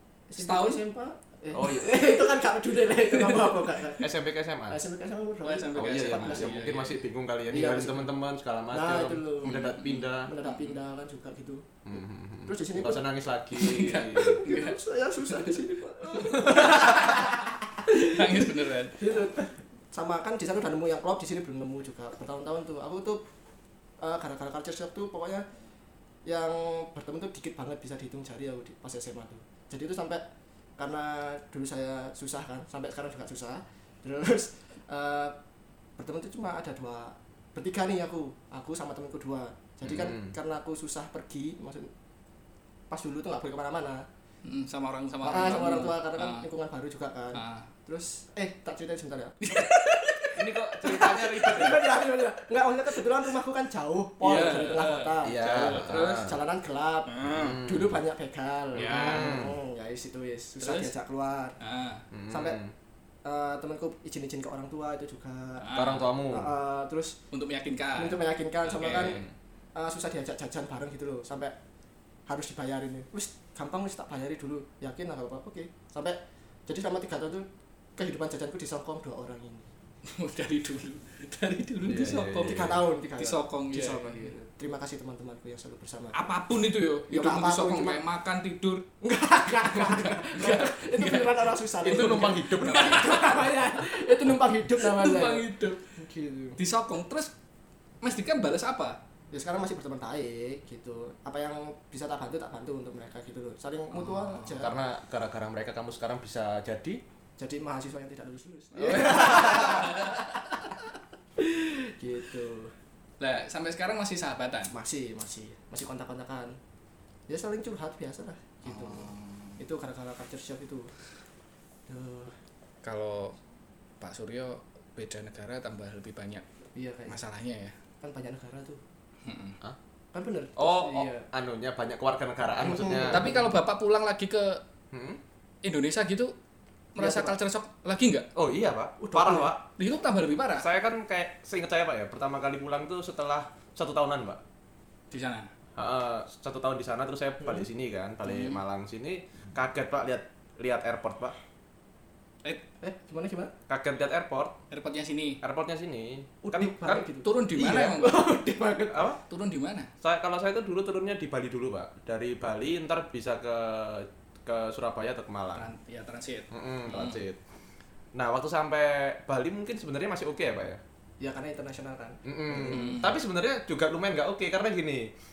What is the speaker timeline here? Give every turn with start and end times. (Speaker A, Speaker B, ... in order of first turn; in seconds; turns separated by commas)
Speaker A: 0.3-4.1, Speaker B: 0.4-0.8, Speaker C: 1.5-2.0, Speaker B: 3.1-3.5, Speaker C: 4.0-4.8, Speaker A: 4.7-6.5, Speaker B: 5.4-7.0, Speaker C: 5.7-10.3, Speaker A: 7.5-8.1, Speaker A: 8.7-9.7, Speaker B: 9.4-10.8, Speaker A: 10.2-11.7, Speaker C: 11.8-14.4, Speaker A: 12.4-13.0, Speaker B: 13.5-19.1, Speaker A: 14.2-23.2, Speaker C: 16.4-17.1, Speaker A: 24.0-25.4, Speaker A: 26.2-30.2, Speaker A: 30.8-35.4, Speaker A: 36.0-41.9, Speaker C: 39.8-40.3, Speaker A: 42.9-44.0, Speaker B: 44.4-46.5, Speaker A: 45.2-49.4, Speaker B: 47.3-47.7, Speaker B: 49.4-50.5, Speaker C: 50.3-51.8, Speaker A: 50.8-61.5, Speaker B: 54.2-56.4, Speaker C: 55.2-56.4, Speaker B: 57.0-57.6, Speaker C: 57.3-58.0, Speaker B: 58.7-59.4, Speaker C: 58.7-59.5, Speaker B: 60.6-60.9, Speaker B: 61.6-62.0, Speaker C: 62.1-62.7, Speaker A: 62.3-62.6, Speaker A: 63.2-65.7, Speaker B: 65.6-66.1, Speaker C: 65.7-66.5, Speaker A: 66.3-67.2, Speaker B: 67.3-69.2, Speaker A: 67.9-69.2, Speaker C: 69.0-69.3, Speaker A: 69.7-71.5, Speaker A: 72.3-79.7, Speaker B: 80.0-84.4, Speaker C: 81.8-82.8, Speaker A: 81.9-86.2, Speaker B: 86.1-88.8, Speaker A: 87.1-88.0, Speaker A: 89.0-96.6, Speaker B: 89.7-93.8, Speaker C: 91.8-93.2, Speaker B: 94.7-95.8, Speaker B: 96.6-97.3, Speaker B: 98.0-99.0, Speaker A: 99.3-104.7, Speaker B: 104.0-104.5, Speaker C: 104.5-107.0, Speaker A: 107.4-110.2, Speaker B: 108.8-110.5, Speaker C: 108.8-109.8, Speaker A: 111.4-112.7, Speaker B: 113.2-114.7, Speaker A: 114.7-116.6, Speaker A: 117.3-120.9, Speaker B: 118.7-119.6, Speaker A: 121.9-122.3, Speaker B: 122.8-123.3, Speaker B: 124.0-126.4, Speaker A: 126.7-127.2, Speaker B: 127.1-127.7, Speaker A: 128.0-128.8, Speaker B: 129.2-129.6, Speaker A: 130.1-131.2, Speaker C: 130.6-133.3, Speaker A: 132.6-133.5, Speaker B: 133.1-134.6, Speaker C: 134.9-135.2, Speaker B: 135.6-136.3, Speaker B: 136.9-138.3, Speaker A: 137.0-137.3, Speaker C: 138.3-139.6, Speaker A: 139.0-139.5, Speaker B: 139.8-140.7, Speaker C: 140.5-144.4, Speaker B: 145.1-145.5, Speaker C: 145.8-151.3, Speaker B: 148.2-148.6, Speaker A: 152.8-153.5, Speaker C: 153.7-154.6, Speaker B: 154.7-155.4, Speaker C: 155.4-157.1, Speaker A: 156.4-159.1, Speaker B: 157.2-158.3, Speaker C: 158.9-159.2, Speaker B: 159.2-159.9, Speaker C: 160.0-165.7, Speaker B: 165.6-167.2, Speaker C: 166.5-167.4, Speaker C: 168.1-170.8, Speaker A: 171.2-173.0, Speaker C: 172.2-175.1, Speaker B: 172.6-173.2